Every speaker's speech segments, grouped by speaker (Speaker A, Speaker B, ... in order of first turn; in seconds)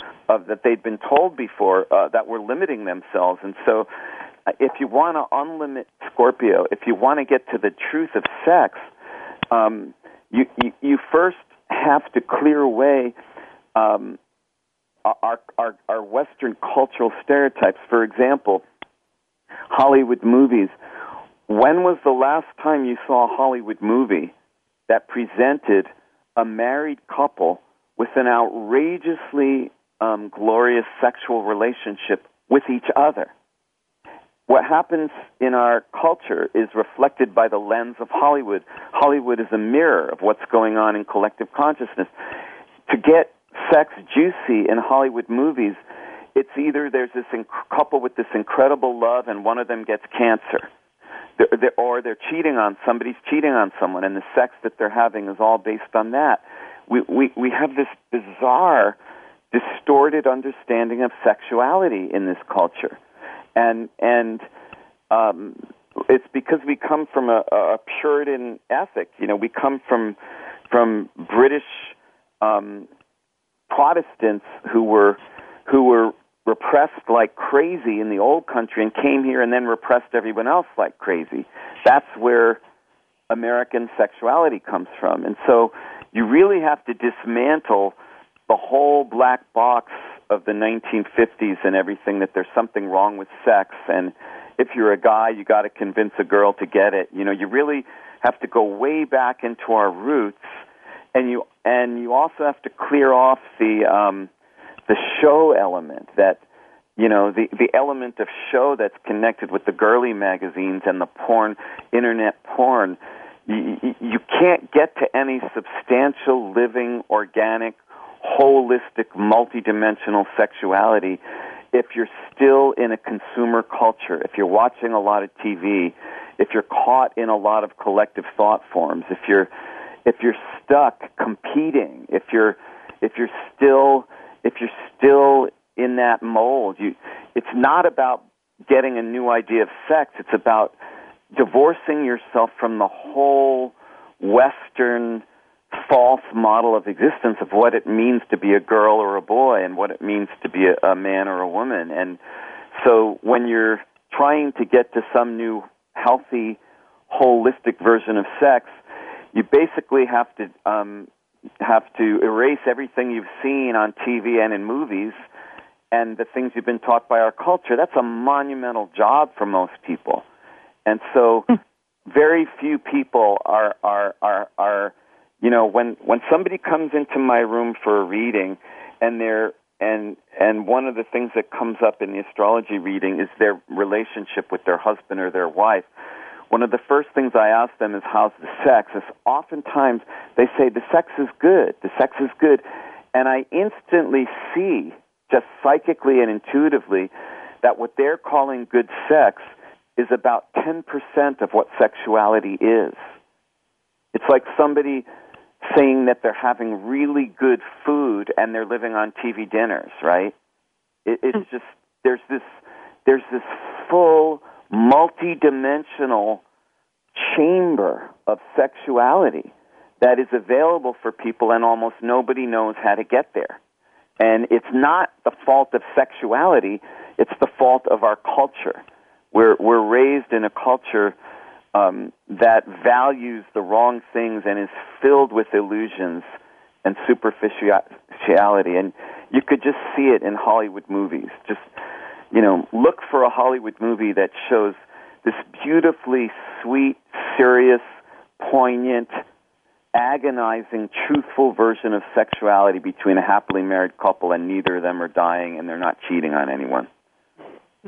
Speaker A: 0.3-3.9, 4.5-8.8, 9.5-13.1, 13.8-14.2, 15.0-18.6, 19.7-20.7, 21.5-24.3, 24.9-33.3, 34.5-42.1, 42.9-45.8, 46.3-50.7, 51.4-59.0, 59.5-63.0, 63.5-64.4, 65.1-70.2, 70.7-72.9, 73.7-82.6, 83.3-88.0, 88.5-100.5, 101.1-104.3, 104.9-106.4, 107.0-121.2, 121.7-129.5, 130.1-140.7, 141.3-152.2, 152.7-156.6, 157.1-158.7, 159.3-161.1, 161.6-165.2, 165.9-170.2, 170.8-171.5, 172.1-185.9, 186.5-197.1, 197.6-203.0, 204.1-205.1, 205.6-210.3, 211.1-216.4, 217.1-223.6, 224.2-231.2, 231.7-236.3, 236.8-241.6, 242.3-247.8, 248.4-249.2, 249.9-256.9